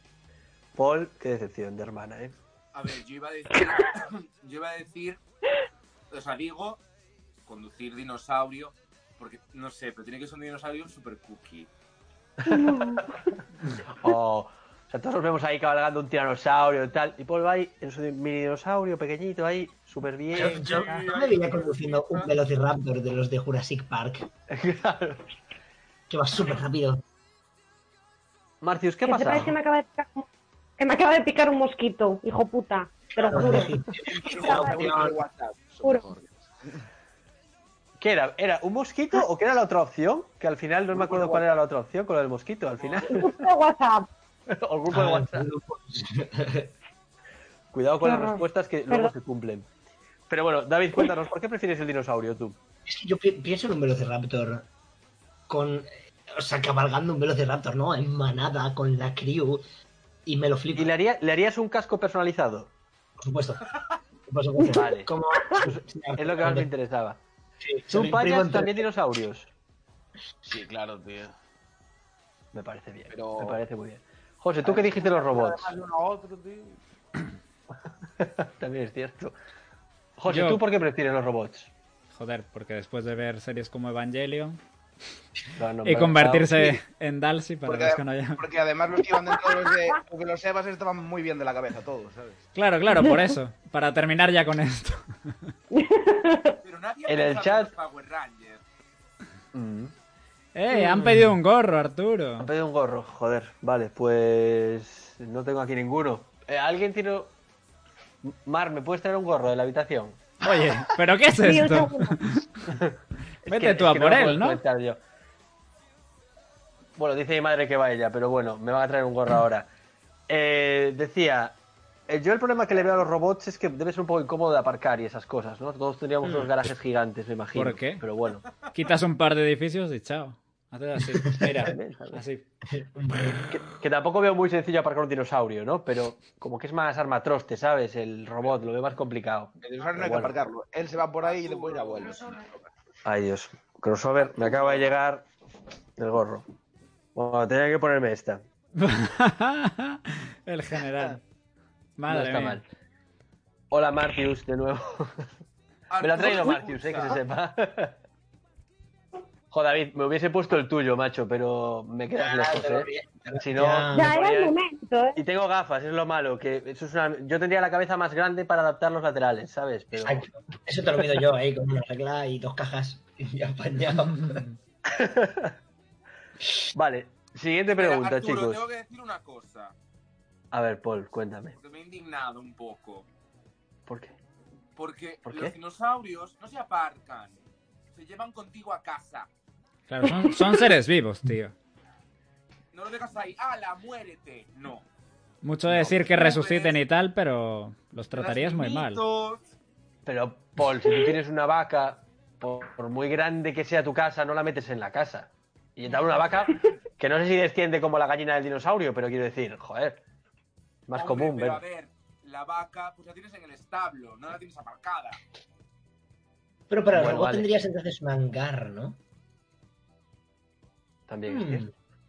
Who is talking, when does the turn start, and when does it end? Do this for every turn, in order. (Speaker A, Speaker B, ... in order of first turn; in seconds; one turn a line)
Speaker A: 0.8-2.3
Speaker B: 2.7-5.2
Speaker B: 6.1-6.8
Speaker B: 7.5-11.7
Speaker A: 12.4-13.0
Speaker C: 12.5-13.0
Speaker A: 13.9-21.0
Speaker D: 20.3-24.3
Speaker B: 20.3-22.3
Speaker A: 24.5-25.2
Speaker D: 26.1-27.0
Speaker A: 28.6-29.5
Speaker C: 29.0-30.3
Speaker C: 30.8-35.0
Speaker D: 33.2-35.2
Speaker E: 33.3-36.8
Speaker A: 38.0-43.5
Speaker E: 40.9-41.5
Speaker C: 43.1-44.1
Speaker A: 44.5-45.5
Speaker D: 44.9-46.7
Speaker A: 47.7-49.7
Speaker C: 48.0-49.1
Speaker A: 50.3-52.6
Speaker D: 52.9-54.7
Speaker D: 55.5-59.6
Speaker D: 60.2-60.9
Speaker A: 60.7-62.7
Speaker D: 63.2-63.7
Speaker D: 64.3-66.7
Speaker A: 64.7-67.2
Speaker D: 67.6-68.8
Speaker A: 67.9-69.5
Speaker E: 70.4-71.3
Speaker A: 72.5-75.7
Speaker E: 73.1-73.6
Speaker E: 74.6-76.8
Speaker A: 78.2-79.3
Speaker A: 80.2-81.7
Speaker F: 80.3-80.6
Speaker F: 82.1-84.6
Speaker A: 85.5-86.8
Speaker F: 85.8-88.4
Speaker E: 87.6-92.4
Speaker C: 89.4-89.7
Speaker F: 92.5-95.3
Speaker C: 95.7-96.6
Speaker B: 96.6-98.6
Speaker A: 97.1-97.7
Speaker A: 99.5-99.9
Speaker F: 100.5-102.5
Speaker A: 100.9-101.3
Speaker A: 102.4-107.3
Speaker A: 108.2-110.2
Speaker F: 110.4-112.5
Speaker C: 111.4-112.2
Speaker A: 112.7-115.0
Speaker F: 113.5-114.6
Speaker A: 117.0-119.7
Speaker A: 120.3-121.6
Speaker A: 122.1-128.4
Speaker F: 126.2-126.5
Speaker F: 127.5-128.0
Speaker F: 128.7-132.5
Speaker A: 131.7-132.2
Speaker D: 132.8-133.5
Speaker A: 133.5-140.3
Speaker E: 139.6-142.7
Speaker B: 141.2-142.4
Speaker A: 143.0-145.2
Speaker A: 146.0-146.4
Speaker A: 147.1-148.4
Speaker F: 148.8-151.2
Speaker F: 152.0-152.6
Speaker A: 152.1-152.6
Speaker A: 153.7-155.3
Speaker B: 155.9-157.2
Speaker A: 156.0-158.0
Speaker A: 159.5-164.5
Speaker D: 162.2-164.2
Speaker C: 163.9-165.2
Speaker A: 165.2-170.3
Speaker D: 169.9-174.4
Speaker A: 174.8-175.6
Speaker A: 176.7-178.6
Speaker B: 177.8-179.7
Speaker A: 180.5-181.5
Speaker B: 181.5-183.1
Speaker A: 183.9-184.1
Speaker B: 184.8-187.3
Speaker A: 185.2-185.6
Speaker B: 187.9-189.3
Speaker F: 189.9-191.5
Speaker C: 190.0-190.5
Speaker B: 192.7-194.8
Speaker F: 195.4-199.0
Speaker A: 195.7-196.0
Speaker B: 196.1-196.8
Speaker B: 198.1-199.4
Speaker A: 200.1-210.0
Speaker A: 210.9-211.6
Speaker B: 210.9-215.2
Speaker D: 216.7-219.0
Speaker A: 216.9-217.5
Speaker A: 221.1-221.7
Speaker D: 221.3-221.7